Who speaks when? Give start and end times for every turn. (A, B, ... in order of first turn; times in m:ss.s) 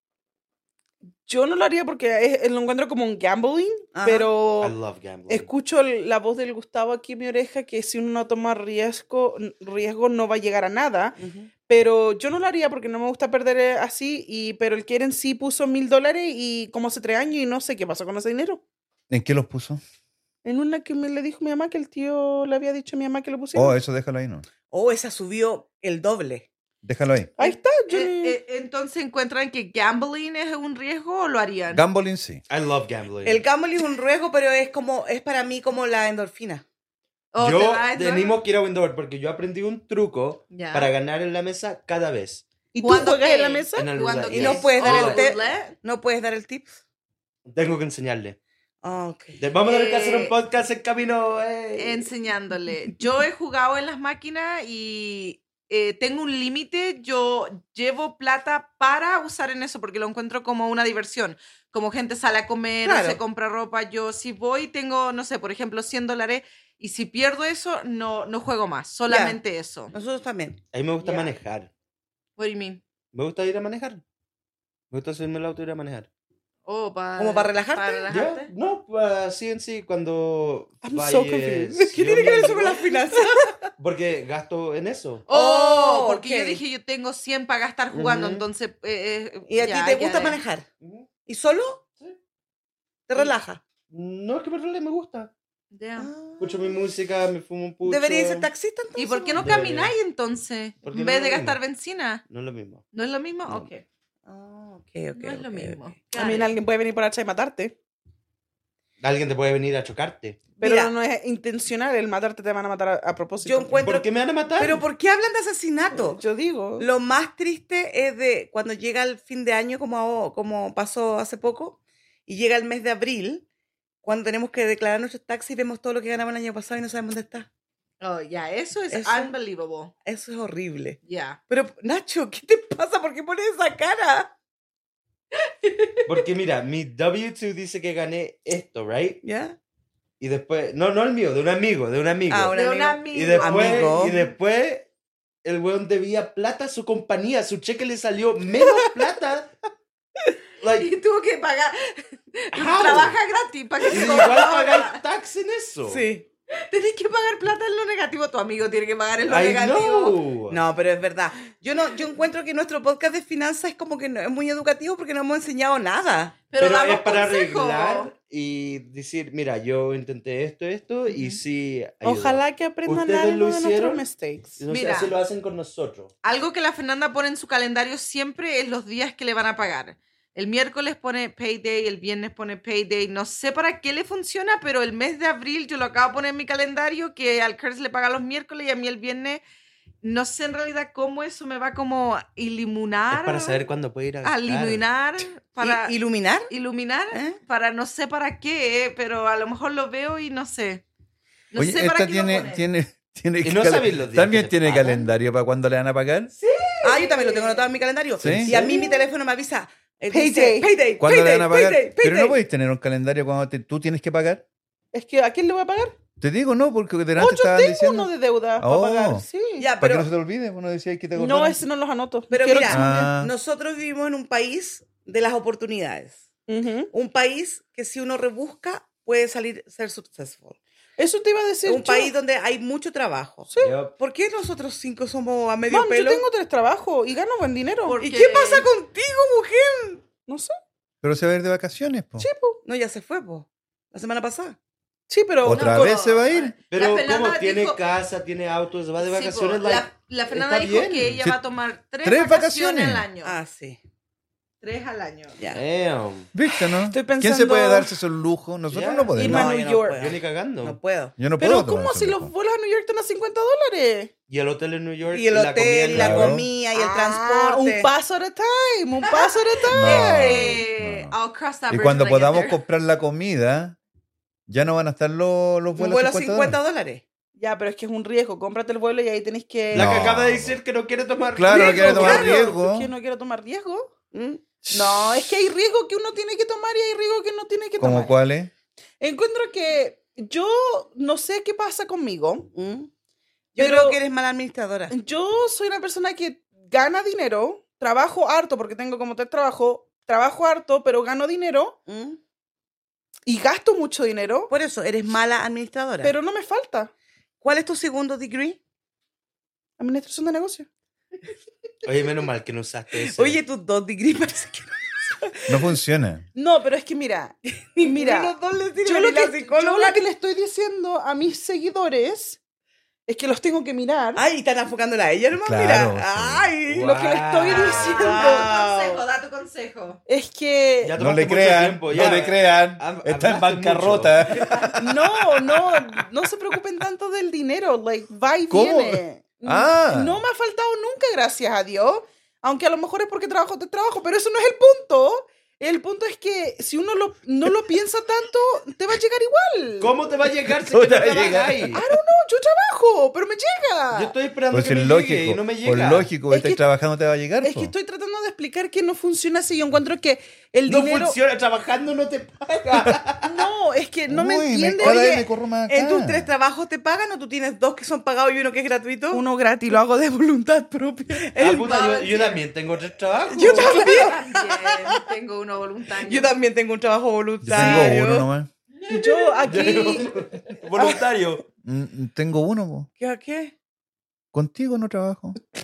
0:01.2-0:04.7 A
0:03.9-0:04.3 B
0:04.6-0:05.5 C
0:05.3-0:18.6 A
0:11.2-0:11.5 B
0:19.1-0:19.8 D
0:20.4-0:23.8 A
0:23.5-0:24.5 D
0:24.7-0:26.5 B
0:26.8-0:27.3 D
0:27.4-0:28.4 A
0:27.4-0:31.8 E
0:31.7-0:32.4 D
0:32.5-0:33.4 C
0:33.2-0:36.6 B
0:37.3-0:38.4 E
0:37.4-0:42.4 C
0:40.5-0:40.9 E
0:42.7-0:44.0 A
0:42.8-0:45.8 E
0:43.7-0:45.3 C
0:44.3-0:46.8 B
0:47.4-0:48.4 C
0:48.8-0:49.4 B
0:49.4-0:52.1 C
0:49.6-0:50.3 E
0:51.8-1:09.9 E
1:02.8-1:03.2 B
1:09.1-1:09.4 B
1:09.9-1:11.3 B
1:10.7-1:11.7 C
1:12.4-1:12.8 E
1:13.1-1:14.0 C
1:14.9-1:16.1 C
1:16.6-1:18.5 E
1:17.2-1:18.1 B
1:18.1-1:22.8 C
1:20.8-1:23.4 A
1:22.0-1:23.7 B
1:23.8-1:25.3 C
1:25.3-1:30.4 E
1:25.3-1:26.6 B
1:27.9-1:28.4 C
1:29.5-1:30.7 B
1:30.8-1:31.1 C
1:31.2-1:31.8 B
1:33.1-1:33.6 B
1:33.9-1:35.3 C
1:35.7-1:36.1 E
1:36.0-1:36.8 B
1:36.4-1:38.5 C
1:37.8-1:39.4 B
1:39.0-1:42.2 E
1:39.4-1:39.9 C
1:40.8-1:41.6 C
1:42.3-1:42.8 C
1:42.9-1:43.8 E
1:44.3-1:45.8 B
1:45.1-1:46.5 E
1:46.1-1:47.7 A
1:49.0-1:50.5 C
1:50.6-1:50.9 B
1:50.6-1:53.8 A
1:53.4-1:56.2 B
1:53.7-1:54.8 C
1:55.9-1:56.9 A
1:56.8-2:03.4 B
2:04.0-2:07.5 B
2:08.0-2:09.9 E
2:08.9-2:09.3 B
2:10.0-2:14.3 B
2:11.0-2:11.4 E
2:15.4-2:16.1 E
2:16.0-2:19.2 C
2:19.2-2:19.6 B
2:20.2-2:24.9 C
2:22.3-2:24.2 B
2:22.5-2:24.1 E
2:25.4-2:29.5 C
2:30.6-2:30.9 C
2:30.6-2:35.0 E
2:32.5-2:33.2 C
2:33.8-2:36.1 C
2:35.8-2:36.2 B
2:36.5-2:40.2 E
2:39.3-2:40.6 C
2:40.5-2:46.4 B
2:46.5-2:48.1 E
2:46.6-2:54.0 C
2:51.1-2:51.4 E
2:52.0-2:54.6 A
2:54.6-2:56.1 C
2:54.7-2:55.1 E
2:56.2-3:09.4 E
3:10.0-3:13.6 E
3:13.1-3:14.8 C
3:14.2-3:15.9 E
3:15.6-3:16.5 B
3:16.5-3:20.8 E
3:17.1-3:17.4 B
3:21.5-3:22.6 E
3:21.6-3:26.3 D
3:23.4-3:25.1 C
3:26.4-3:27.6 E
3:26.8-3:32.4 B
3:26.9-3:27.2 A
3:28.2-3:28.9 C
3:28.2-3:28.5 D
3:30.1-3:30.7 A
3:31.0-3:34.4 D
3:34.9-3:35.9 A
3:36.2-3:39.2 D
3:37.2-3:39.7 A
3:39.6-3:40.1 B
3:39.8-3:41.6 D
3:41.2-3:42.9 A
3:42.3-3:46.2 B
3:42.7-3:43.3 D
3:46.5-3:46.9 A
3:46.9-3:50.6 B
3:51.0-3:52.1 A
3:51.6-3:56.2 B
3:53.5-3:53.8 A
3:53.6-3:54.0 C
3:55.7-3:58.0 A
3:57.8-3:58.7 E
3:58.0-4:00.0 B
4:00.3-4:00.6 A
4:01.0-4:02.3 D
4:02.2-4:02.6 A
4:02.6-4:04.6 B
4:05.1-4:06.0 A
4:05.4-4:06.5 D
4:05.5-4:07.8 E
4:06.7-4:11.2 C
4:09.0-4:13.3 E
4:12.0-4:13.1 D
4:13.2-4:13.8 B
4:14.6-4:15.4 E
4:15.5-4:16.3 C
4:16.3-4:19.6 D
4:16.8-4:17.9 A
4:18.7-4:19.1 C
4:19.1-4:20.0 A
4:19.2-4:21.1 B
4:19.9-4:20.8 C
4:21.2-4:22.3 D
4:21.4-4:24.1 A
4:24.3-4:26.4 C
4:25.1-4:27.9 B
4:25.9-4:26.4 D
4:26.7-4:30.0 A
4:29.1-4:32.6 E
4:29.7-4:31.1 D
4:31.7-4:33.8 D
4:34.5-4:36.6 D
4:35.8-4:37.0 B
4:37.4-4:40.1 A
4:39.7-4:40.6 D
4:39.7-4:42.4 C
4:41.3-4:42.9 D
4:41.5-4:43.9 A
4:44.1-4:44.4 B
4:44.6-4:45.3 D
4:44.7-4:48.1 A
4:47.8-4:48.5 D
4:49.0-4:52.5 A
4:52.5-4:52.9 B
4:53.6-4:54.9 B
4:53.6-4:54.0 A
4:54.9-5:01.8 A
5:01.9-5:02.2 B
5:03.2-5:04.5 A
5:04.5-5:06.1 B
5:06.0-5:06.9 A
5:07.4-5:08.6 B
5:09.8-5:10.7 A
5:11.8-5:13.4 C
5:13.0-5:15.2 B
5:15.5-5:16.2 D
5:16.3-5:22.4 A
5:17.8-5:20.0 B
5:23.1-5:24.2 A
5:24.2-5:26.9 B
5:25.3-5:26.5 D
5:26.7-5:28.0 C
5:26.8-5:28.5 A
5:27.5-5:30.0 E
5:27.6-5:29.0 B
5:30.1-5:31.0 A
5:30.8-5:34.7 C
5:31.0-5:36.0 D
5:34.8-5:50.0 A
5:38.5-5:40.2 D
5:49.8-5:51.8 C
5:50.7-5:51.8 D
5:51.7-5:54.1 A
5:53.9-5:56.1 C
5:54.5-5:57.7 D
5:56.3-5:56.6 A
5:57.4-6:01.2 A
6:00.7-6:03.4 C
6:03.2-6:05.3 A
6:04.1-6:06.3 D
6:04.8-6:09.2 B
6:09.1-6:11.3 A
6:11.1-6:12.3 B
6:11.4-6:13.9 C
6:11.6-6:12.4 E
6:13.3-6:14.3 A
6:13.4-6:14.9 B
6:13.7-6:16.3 E
6:16.0-6:18.3 B
6:17.4-6:18.5 D
6:17.5-6:17.9 A
6:18.8-6:19.4 E
6:18.9-6:20.1 A
6:19.5-6:21.4 C
6:21.6-6:22.9 D
6:23.0-6:23.5 B
6:24.3-6:25.4 D